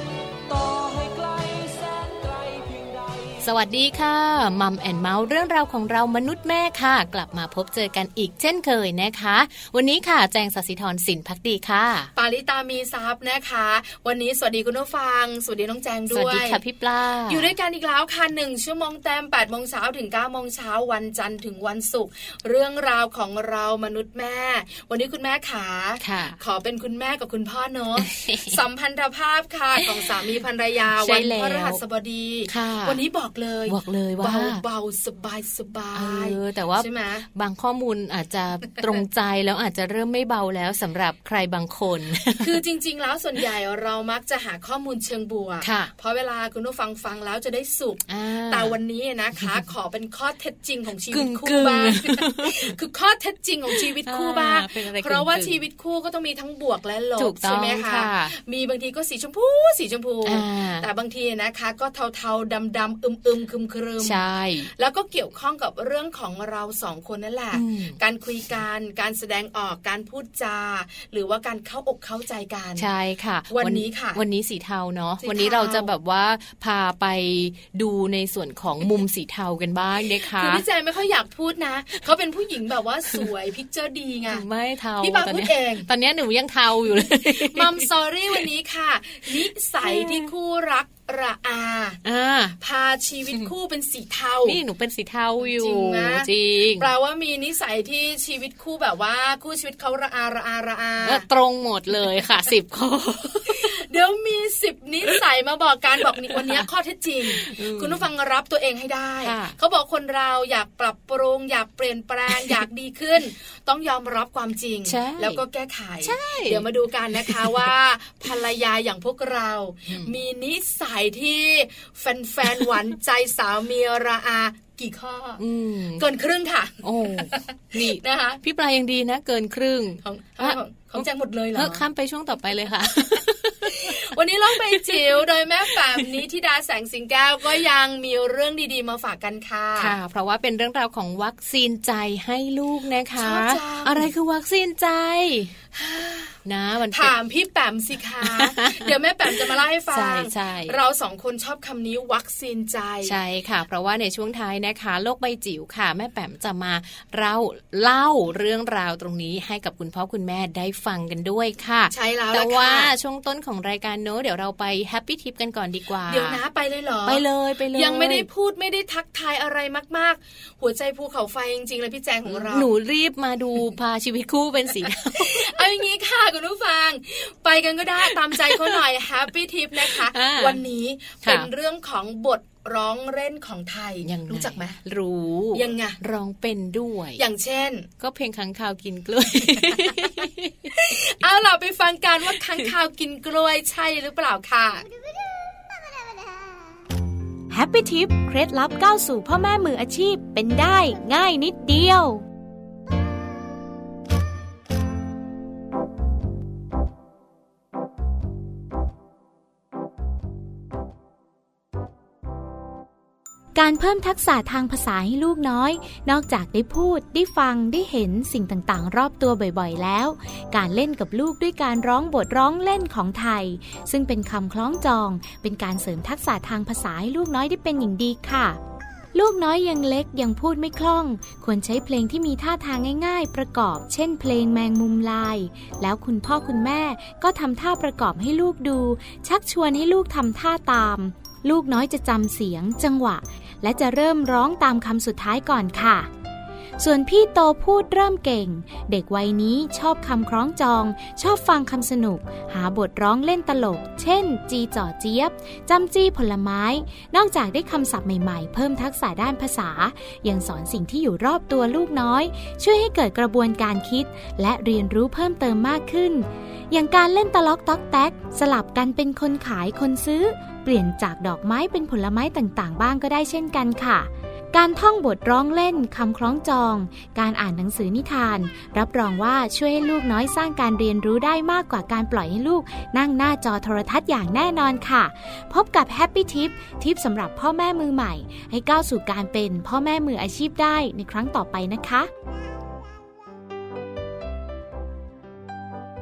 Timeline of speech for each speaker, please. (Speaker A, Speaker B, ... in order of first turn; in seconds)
Speaker A: 0.5-3.5
Speaker B: 3.4-12.1, 16.1-17.5, 26.0-26.4, 28.0-28.6, 31.0-31.8, 32.5-33.0, 33.7-34.6, 35.9-42.6, 45.6-45.9, 48.1-48.8, 51.1-52.7, 53.8-55.6, 57.2-58.3, 60.2-60.9, 64.0-64.7, 67.5-68.0, 72.8-80.6, 84.3-87.9, 89.8-90.3, 92.0-92.6, 94.4-96.9, 101.0-103.8, 106.3-106.6, 107.3-108.1, 109.2-109.5, 114.8-115.4, 116.0-117.7, 119.9-120.1, 125.4-126.0, 126.8-134.0, 134.6-136.0, 139.8-145.5, 146.4-147.1, 148.2-150.8, 153.0-166.4, 167.1-168.3, 172.3-175.5, 178.1-178.7, 179.8-180.6, 181.2-181.5, 184.0-187.2, 188.0-190.7
Speaker C: 12.2-16.6, 17.3-37.2, 42.4-64.2, 64.8-72.9, 73.5-74.2, 75.2-75.9, 80.2-84.4, 85.0-85.9, 87.0-92.0, 92.6-94.6, 95.4-101.2, 103.5-125.4, 126.0-128.4, 130.0-131.8, 133.7-139.9, 143.2-144.1, 145.7-146.3, 146.9-153.2, 161.9-162.9, 166.1-172.7, 175.1-184.8, 185.5-186.0, 187.2-187.9, 190.7-194.8
Speaker D: 197.5-202.2, 213.5-228.6, 229.1-246.1, 246.8-292.1